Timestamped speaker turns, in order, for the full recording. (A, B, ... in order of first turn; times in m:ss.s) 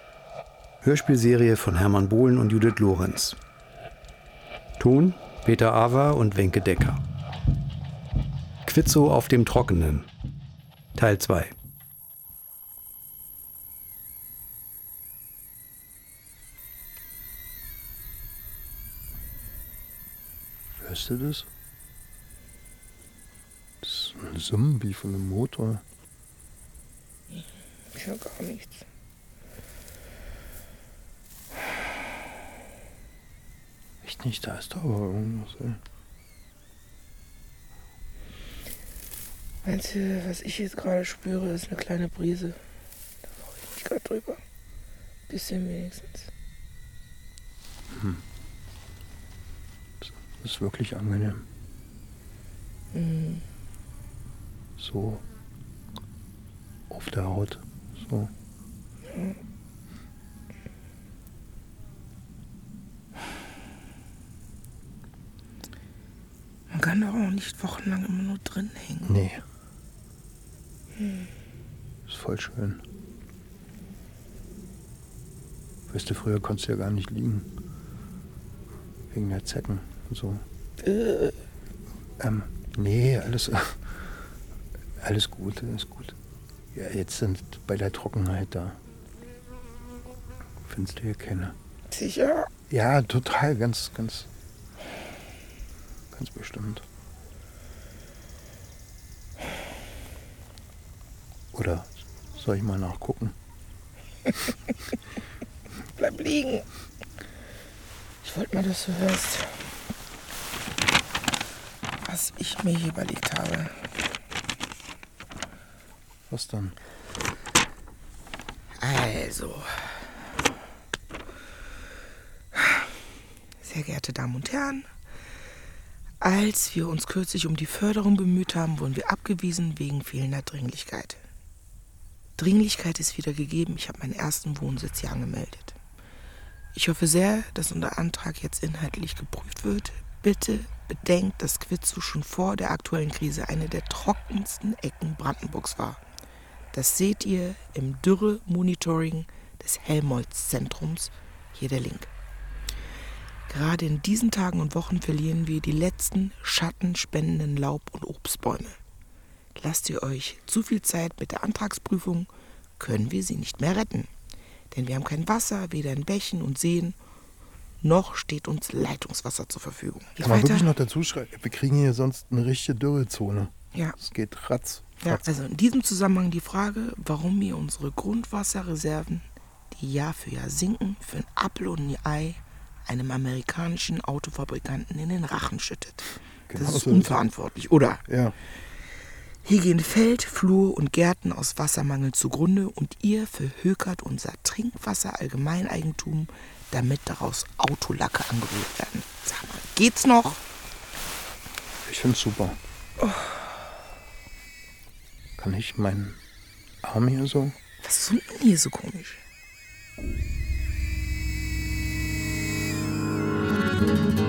0:00.8-0:03.4 A
0:04.8-0:07.0 A
0:08.6-0:10.1 A
0:11.0-0:11.5 A
0:20.8-0:21.5 B
0:23.8-0:25.8 B
0:27.3-0:28.8 C
0:34.0-0:35.8 B
0:39.6-0:42.6 C
0:43.3-0:44.4 C
0:45.3-0:46.3 C
0:47.9-0:48.2 B
0:50.0-0:51.5 B
0:52.9-0:53.4 C
0:54.8-0:55.2 B
0:56.9-0:58.3 B
0:59.1-0:59.4 C
1:06.7-1:09.1 C
1:09.0-1:09.4 B
1:11.0-1:11.3 C
1:12.1-1:12.8 B
1:15.9-1:17.5 B
1:19.1-1:20.4 B
1:20.8-1:21.4 C
1:22.2-1:24.1 B
1:25.0-1:26.2 B
1:26.7-1:28.8 B
1:30.6-1:31.6 B
1:31.9-1:32.5 C
1:32.7-1:34.3 B
1:36.1-1:36.8 B
1:41.5-1:43.4 B
1:46.0-1:46.6 C
1:48.2-1:49.5 C
1:52.0-1:53.8 C
1:56.3-1:56.8 B
1:58.8-1:59.9 C
2:02.6-2:02.8 C
2:03.6-2:04.9 C
2:06.2-2:11.2 C
2:12.4-2:15.8 C
2:16.7-2:26.0 C
2:26.7-2:32.1 C
2:33.5-2:38.8 C
2:39.6-2:44.1 C
2:44.7-2:47.0 C
2:47.8-2:50.7 C
2:50.2-2:55.2 B
2:55.0-3:08.0 C
3:06.5-3:07.3 B
3:08.0-3:08.4 B
3:09.4-3:20.4 C
3:21.8-3:22.6 B
3:23.0-3:23.4 C
3:25.4-3:26.2 B
3:26.8-3:27.6 B
3:27.8-3:29.2 C